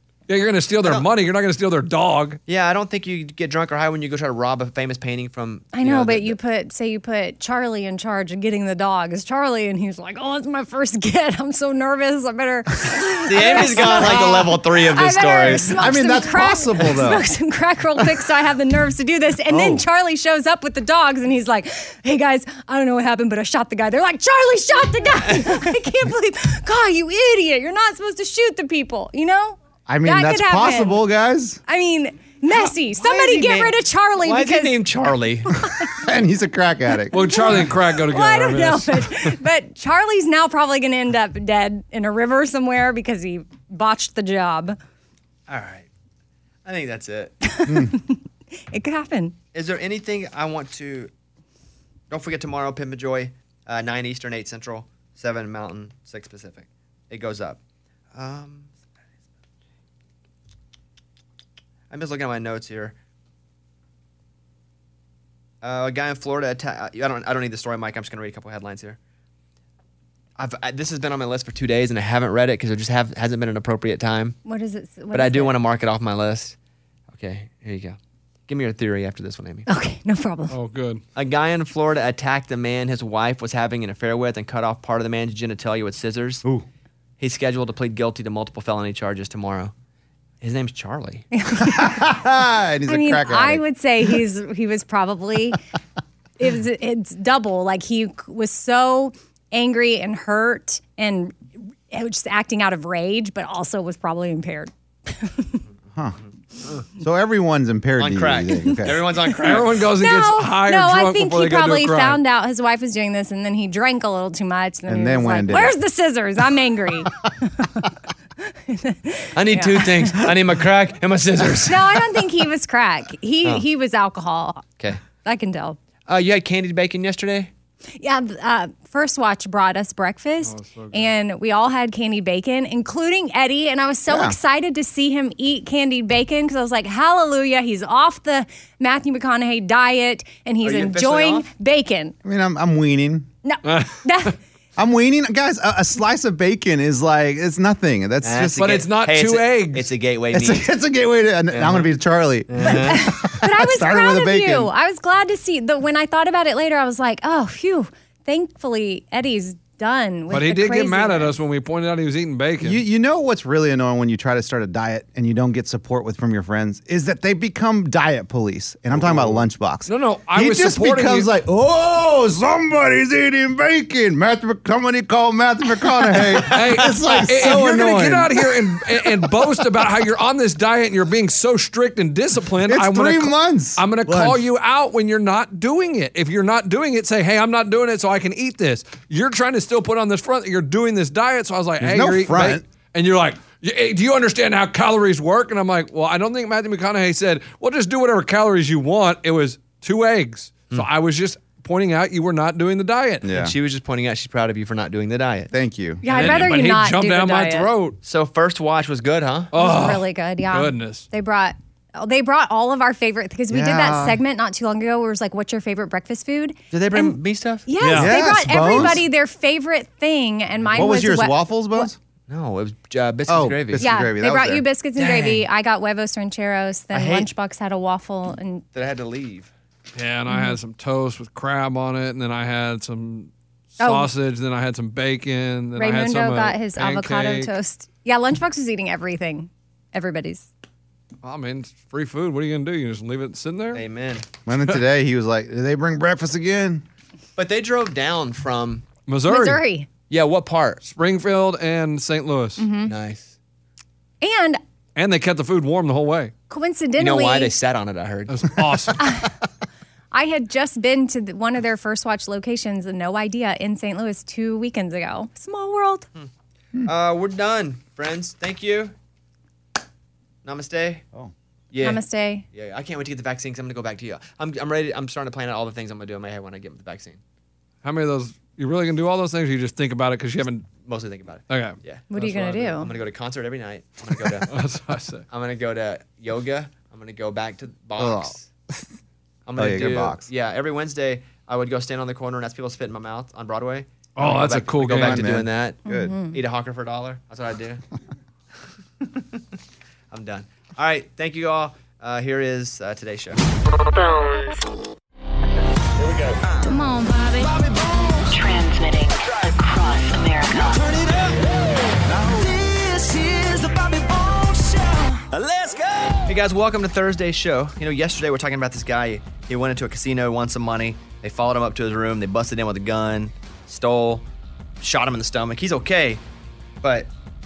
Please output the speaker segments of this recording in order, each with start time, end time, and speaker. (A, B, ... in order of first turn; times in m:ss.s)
0:00.3-0:02.4 A
0:02.5-0:06.4 B
0:05.7-0:31.0 C
0:13.3-0:15.7 B
0:13.5-0:14.4 D
0:15.6-0:17.2 D
0:19.5-0:19.8 D
0:29.9-0:31.6 D
0:31.7-0:34.8 C
0:32.6-0:35.5 B
0:35.6-0:35.9 C
0:36.0-0:37.1 D
0:37.1-0:44.8 C
0:37.1-0:39.4 A
0:45.5-0:45.9 B
0:46.6-0:47.3 B
0:47.4-0:49.4 C
0:47.7-0:47.9 D
0:49.5-0:51.1 B
0:52.1-0:57.6 B
0:58.1-0:58.7 B
1:01.9-1:03.0 B
1:05.6-1:09.0 B
1:10.4-1:14.4 B
1:14.4-1:15.6 C
1:15.1-1:16.6 B
1:17.1-1:18.0 B
1:18.5-1:19.7 B
1:19.7-1:20.6 C
1:20.5-1:21.0 A
1:21.2-1:26.4 B
1:27.2-1:29.7 B
1:30.4-1:31.3 B
1:31.4-1:32.2 C
1:31.6-1:33.6 D
1:32.9-1:35.6 C
1:36.4-1:41.4 C
1:41.9-1:45.6 C
1:47.0-1:49.1 D
1:48.0-1:49.7 B
1:49.4-1:52.2 A
1:50.0-1:57.9 C
1:54.9-1:55.8 D
1:58.7-2:00.2 C
1:59.4-2:02.0 B
2:01.7-2:04.7 C
2:05.2-2:05.8 C
2:06.1-2:07.5 B
2:08.0-2:22.2 C
2:10.4-2:11.1 A
2:14.1-2:14.4 D
2:20.6-2:21.5 B
2:22.2-2:23.3 D
2:23.4-2:24.4 C
2:23.6-2:24.3 A
2:24.8-2:28.7 D
2:28.2-2:30.7 B
2:28.6-2:29.9 A
2:30.3-2:34.7 D
2:31.5-2:31.9 B
2:32.5-2:33.0 B
2:32.6-2:41.4 C
2:40.3-2:42.8 A
2:42.6-2:58.7 D
2:48.9-2:51.3 A
2:56.4-3:23.3 A
3:02.6-3:04.4 D
3:11.8-3:12.6 D
3:23.2-3:23.5 D
3:23.3-3:25.5 B
3:25.5-3:26.0 D
3:26.0-3:27.7 C
3:26.1-3:28.0 A
3:28.0-3:29.5 B
3:29.5-3:31.1 A
3:29.6-3:41.9 C
3:33.5-3:34.2 D
3:36.7-3:37.7 B
3:37.8-3:38.1 A
3:38.0-3:39.0 D
3:40.7-3:42.0 D
3:42.3-3:43.9 B
3:43.3-3:44.6 D
3:43.8-3:48.6 C
3:45.0-3:45.4 B
3:46.9-3:47.3 B
3:48.7-3:49.5 B
3:50.0-3:57.5 A
3:50.3-3:50.6 C
3:53.8-3:54.1 C
3:55.8-4:00.5 C
4:01.2-4:03.8 A
4:03.7-4:04.2 B
4:04.5-4:06.8 D
4:07.4-4:08.9 B
4:09.1-4:09.6 A
4:09.3-4:09.9 C
4:10.1-4:10.8 B
4:10.8-4:12.7 A
4:12.6-4:12.9 C
4:12.9-4:13.4 B
4:14.2-4:14.6 C
4:15.0-4:16.3 A
4:16.5-4:17.5 C
4:17.0-4:18.5 B
4:18.3-4:19.1 A
4:19.0-4:19.3 C
4:20.1-4:26.1 C
4:26.8-4:28.9 B
4:30.4-4:31.0 B
4:31.7-4:32.0 B
4:31.8-4:32.4 C
4:32.5-4:37.2 B
4:37.8-4:40.7 A
4:40.8-4:42.1 B
4:41.5-4:42.7 A
4:42.1-4:42.9 C
4:42.7-4:44.5 B
4:44.4-4:45.3 A
4:45.3-4:48.5 B
4:48.0-4:48.8 D
4:49.5-4:55.8 B
4:49.6-4:50.3 D
4:54.2-4:55.4 A
4:55.0-4:56.2 D
4:55.8-4:56.4 C
4:56.3-4:57.8 B
5:00.1-5:03.4 B
5:03.9-5:04.6 E
5:06.7-5:07.5 C
5:08.3-5:10.9 E
5:16.3-5:24.2 B
5:24.8-5:26.2 B
5:26.8-5:27.1 B